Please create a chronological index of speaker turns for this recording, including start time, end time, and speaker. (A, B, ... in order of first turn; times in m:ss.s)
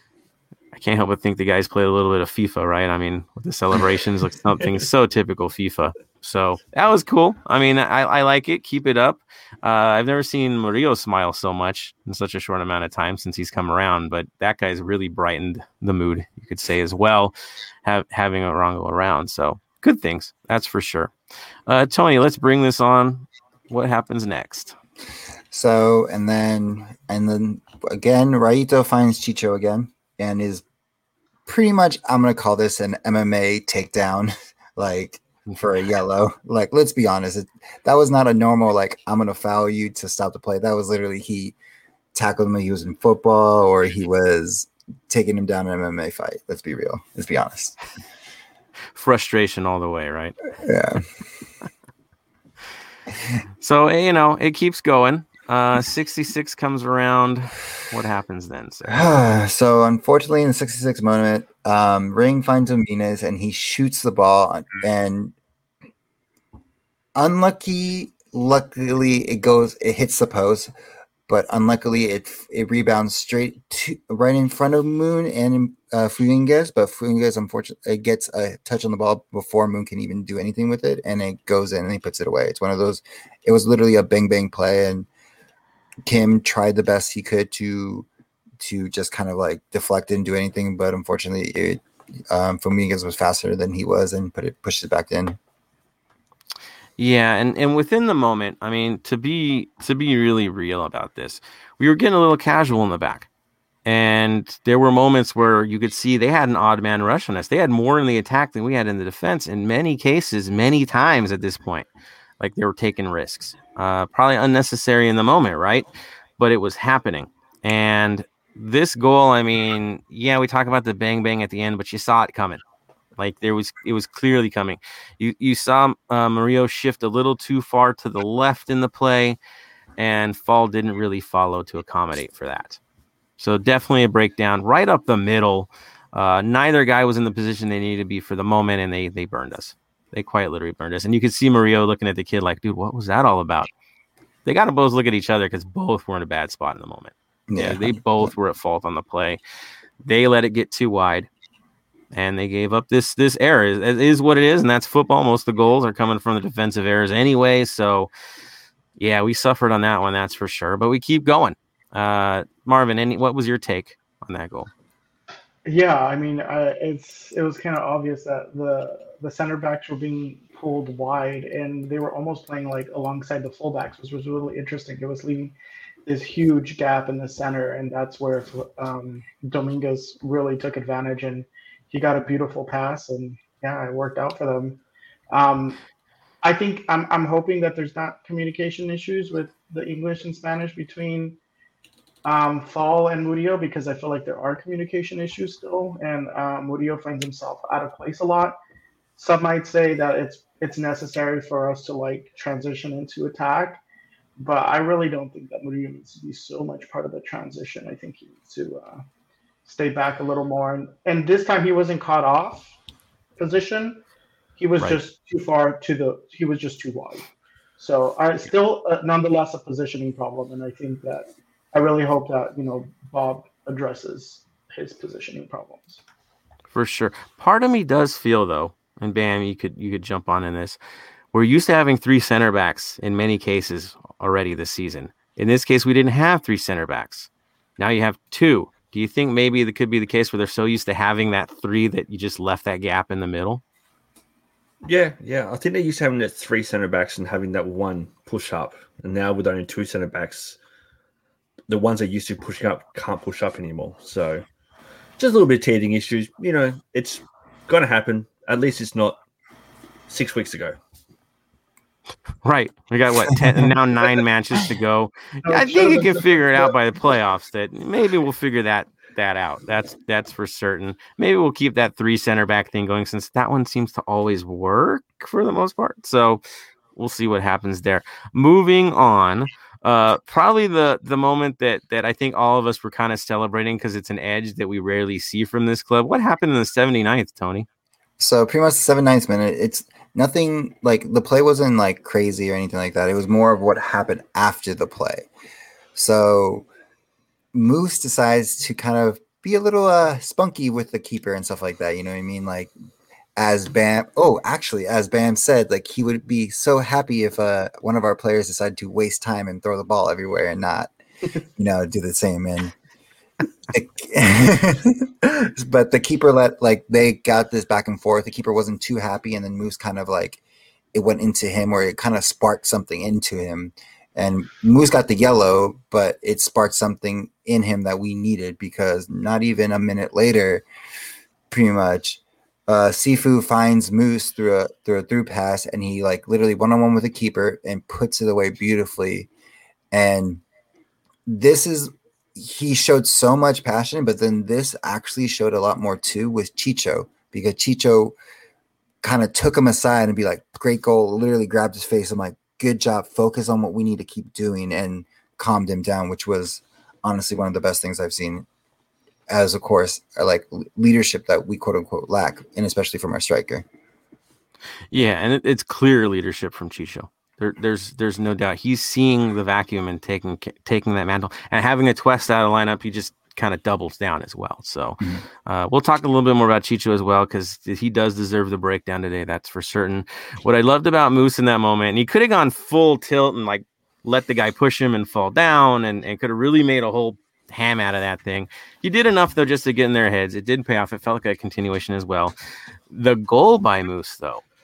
0:00.7-0:17.3 A
0:17.8-0:21.1 A
0:21.7-0:24.8 A
0:25.5-0:30.6 B
0:31.4-0:41.6 B
0:42.1-0:47.8 B
0:48.9-0:50.4 A
0:50.6-0:51.0 B
0:53.6-0:59.1 A
0:58.9-1:05.3 B
1:07.1-1:10.7 B
1:11.3-1:25.1 B
1:26.0-1:28.1 B
1:28.6-1:35.4 B
1:37.0-1:43.3 A
1:43.8-1:51.9 A
1:52.4-1:55.9 A
1:56.4-2:02.6 A
2:03.2-2:09.4 A
2:10.0-2:12.8 A
2:13.4-2:23.7 A
2:24.4-2:29.4 A
2:27.5-2:28.3 B
2:30.0-2:31.3 A
2:32.1-2:38.1 A
2:39.0-2:44.7 A
2:45.6-2:55.5 C
2:56.0-3:04.8 C
3:05.3-3:05.8 C
3:06.4-3:11.4 C
3:12.2-3:18.6 C
3:19.2-3:23.8 C
3:24.4-3:29.0 C
3:29.6-3:32.7 C
3:33.4-3:34.0 C
3:34.6-3:37.3 C
3:37.8-3:46.0 C
3:46.7-3:50.8 A
3:51.3-4:03.6 A
4:04.8-4:10.6 D
4:11.7-4:14.4 D
4:15.2-4:19.2 D
4:20.1-4:20.8 D
4:22.4-4:36.4 A
4:25.4-4:26.7 C
4:37.0-4:47.7 A
4:48.2-4:55.3 B
4:56.0-4:56.7 B
4:57.5-5:02.7 B
5:03.4-5:10.9 B
5:11.6-5:12.8 B
5:13.7-5:20.4 B
5:20.9-5:30.6 B
5:31.5-5:39.3 B
5:39.9-5:40.4 B
5:41.3-5:48.1 B
5:49.0-5:58.5 B
5:59.3-6:03.6 B
6:04.9-6:32.3 A
6:32.9-6:34.4 A